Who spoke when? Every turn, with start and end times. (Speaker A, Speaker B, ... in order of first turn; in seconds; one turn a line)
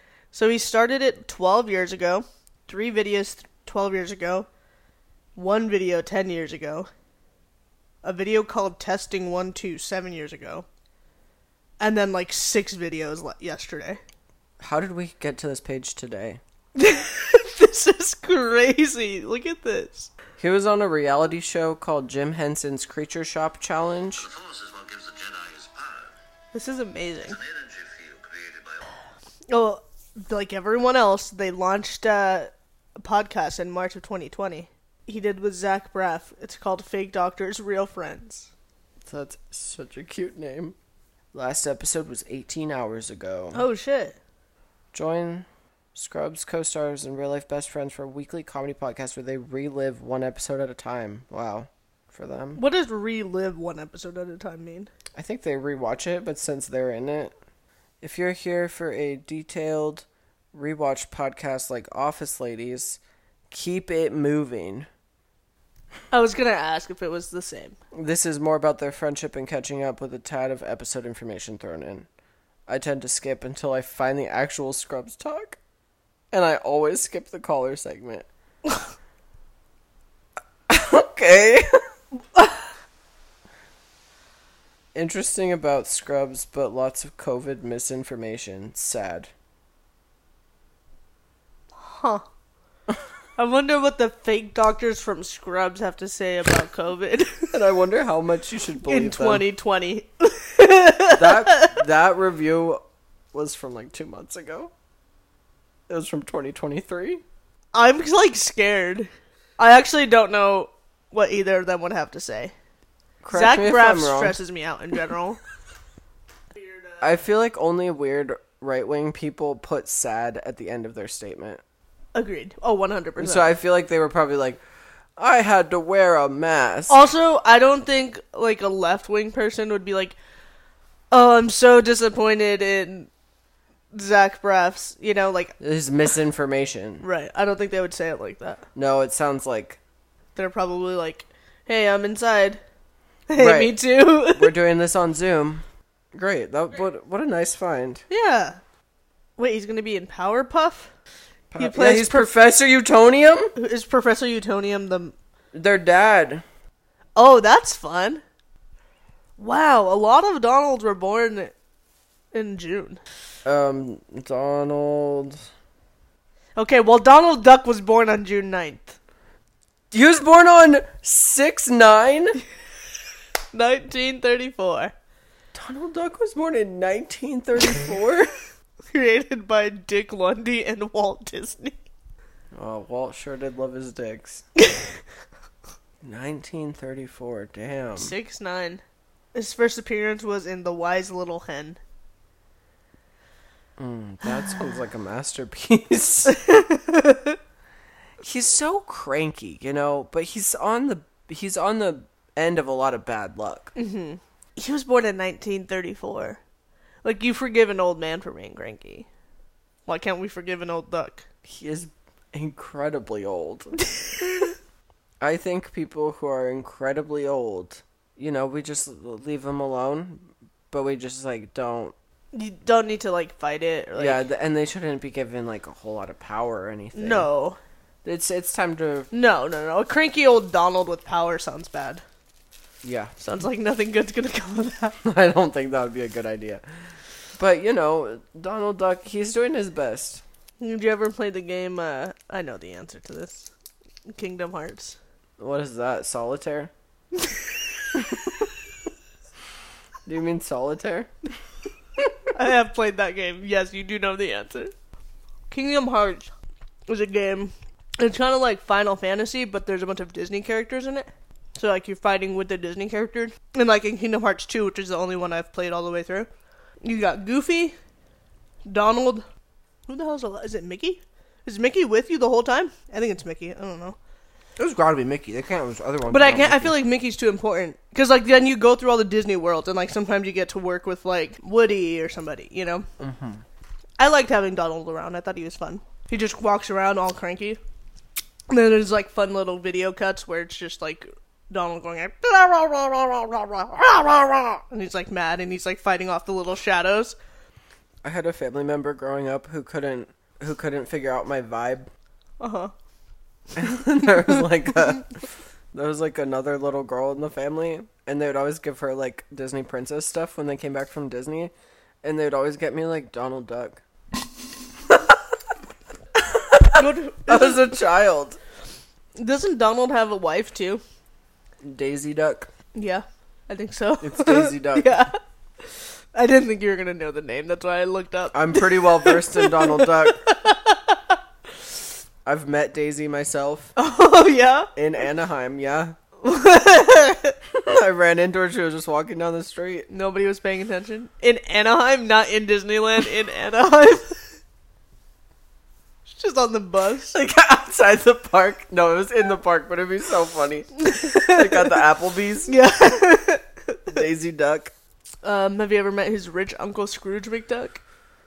Speaker A: 0.3-4.5
Speaker A: 5.4-6.9
Speaker A: 8.0-10.7
Speaker A: 11.8-14.0
Speaker B: 14.6-16.4
Speaker A: 16.8-20.1
Speaker B: 20.4-24.3
Speaker C: 24.2-26.1
Speaker A: 26.5-27.4
Speaker C: 27.2-28.9
Speaker A: 29.5-38.5
Speaker B: 39.0-40.8
Speaker B: 41.3-43.7
Speaker A: 43.5-44.2
Speaker B: 44.9-52.6
Speaker A: 52.6-54.9
Speaker B: 55.1-57.3
Speaker B: 58.0-64.9
Speaker A: 66.1-67.8
Speaker B: 67.9-72.1
Speaker B: 72.7-75.6
Speaker B: 76.3-78.3
Speaker B: 80.7-81.8
Speaker B: 85.0-89.3
Speaker A: 91.8-92.2
Speaker A: 93.4-97.5
Speaker B: 97.5-99.5
Speaker A: 98.9-101.8
Speaker B: 101.1-102.8
Speaker B: 103.3-104.7
Speaker B: 105.9-107.2
Speaker A: 107.7-112.5
Speaker B: 113.2-114.4
Speaker A: 113.3-115.4
Speaker A: 116.5-117.0
Speaker B: 117.0-121.6
Speaker A: 122.1-123.5
Speaker B: 123.2-124.6
Speaker B: 125.2-127.0
Speaker A: 126.9-130.2
Speaker A: 131.1-133.1
Speaker A: 133.9-135.6
Speaker B: 135.6-137.1
Speaker A: 137.0-138.6
Speaker B: 138.8-139.8
Speaker A: 140.4-142.6
Speaker A: 143.3-144.6
Speaker B: 143.4-148.1
Speaker A: 148.1-148.6
Speaker A: 149.4-150.9
Speaker B: 151.5-153.5
Speaker A: 151.6-152.4
Speaker A: 153.6-155.1
Speaker B: 155.5-156.4
Speaker A: 157.2-158.2
Speaker A: 159.4-161.5
Speaker A: 162.3-163.0
Speaker B: 163.4-165.4
Speaker A: 166.6-169.0
Speaker B: 169.9-172.4
Speaker A: 173.5-174.9
Speaker B: 175.5-178.3
Speaker A: 178.9-181.8
Speaker B: 182.5-184.4
Speaker B: 186.0-188.2
Speaker A: 188.0-188.8
Speaker A: 189.3-191.8
Speaker B: 193.8-196.4
Speaker A: 196.3-197.4
Speaker B: 198.2-203.7
Speaker A: 203.8-206.4
Speaker A: 207.0-209.1
Speaker A: 209.9-211.3
Speaker B: 211.4-213.7
Speaker B: 215.2-221.9
Speaker A: 222.3-224.2
Speaker B: 224.0-227.3
Speaker A: 226.9-227.6
Speaker B: 228.1-229.1
Speaker A: 229.1-232.0
Speaker B: 232.8-233.1
Speaker A: 233.2-235.0
Speaker B: 235.0-236.7
Speaker B: 237.4-240.2
Speaker A: 240.6-243.5
Speaker A: 244.1-245.0
Speaker B: 245.4-246.7
Speaker B: 247.9-248.3
Speaker B: 250.1-251.1
Speaker A: 252.3-254.7
Speaker A: 255.5-256.3
Speaker A: 256.9-266.3
Speaker A: 266.8-267.8
Speaker A: 268.7-269.3
Speaker A: 269.9-274.0
Speaker B: 274.6-276.8
Speaker A: 276.1-282.9
Speaker B: 283.0-283.4
Speaker A: 284.0-287.6
Speaker A: 288.5-297.2
Speaker B: 298.0-301.9
Speaker A: 302.4-302.7
Speaker B: 303.5-305.1
Speaker B: 305.7-313.8
Speaker B: 314.9-315.2
Speaker B: 316.2-318.4
Speaker A: 316.7-317.7
Speaker A: 319.2-320.8
Speaker B: 321.6-322.5
Speaker A: 322.7-331.1
Speaker B: 324.0-325.1
Speaker B: 328.3-330.3
Speaker B: 332.2-333.7
Speaker A: 333.8-334.7
Speaker B: 334.8-336.0
Speaker A: 336.2-337.4
Speaker B: 337.5-339.9
Speaker A: 339.9-344.2
Speaker A: 346.1-347.2
Speaker B: 347.1-352.6
Speaker A: 350.8-351.8
Speaker A: 352.5-354.0
Speaker B: 353.9-354.7
Speaker A: 355.2-357.8